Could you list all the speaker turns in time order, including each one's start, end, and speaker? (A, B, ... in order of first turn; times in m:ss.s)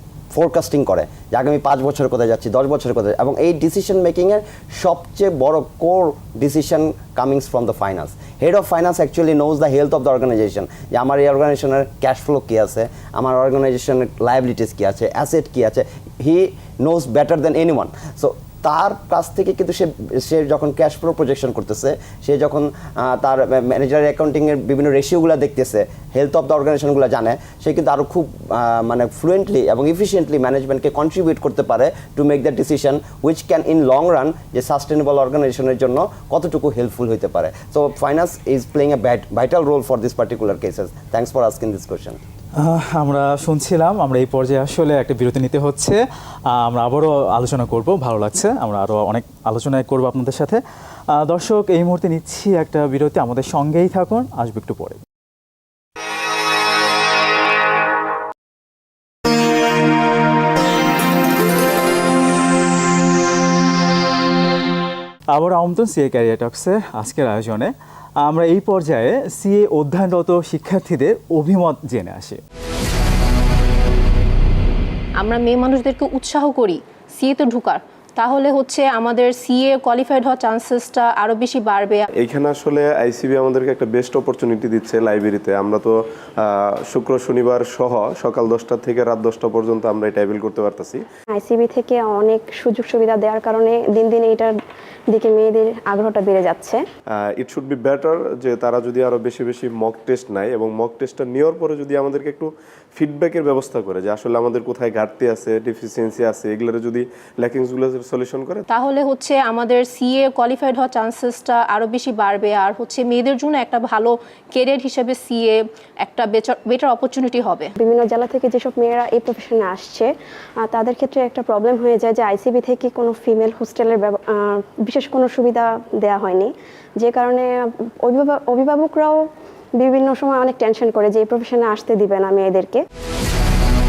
0:00.3-0:42.2 A
0:42.6-0:50.6 B
0:51.1-0:55.0 B
1:05.3-1:12.4 B
1:15.2-1:22.1 C
1:22.2-1:31.0 D
1:31.3-1:34.6 E
1:35.1-1:36.8 E
1:37.2-1:48.6 D
1:48.7-1:57.7 C
1:57.8-2:00.1 E
2:00.6-2:09.2 E
2:09.8-2:12.8 E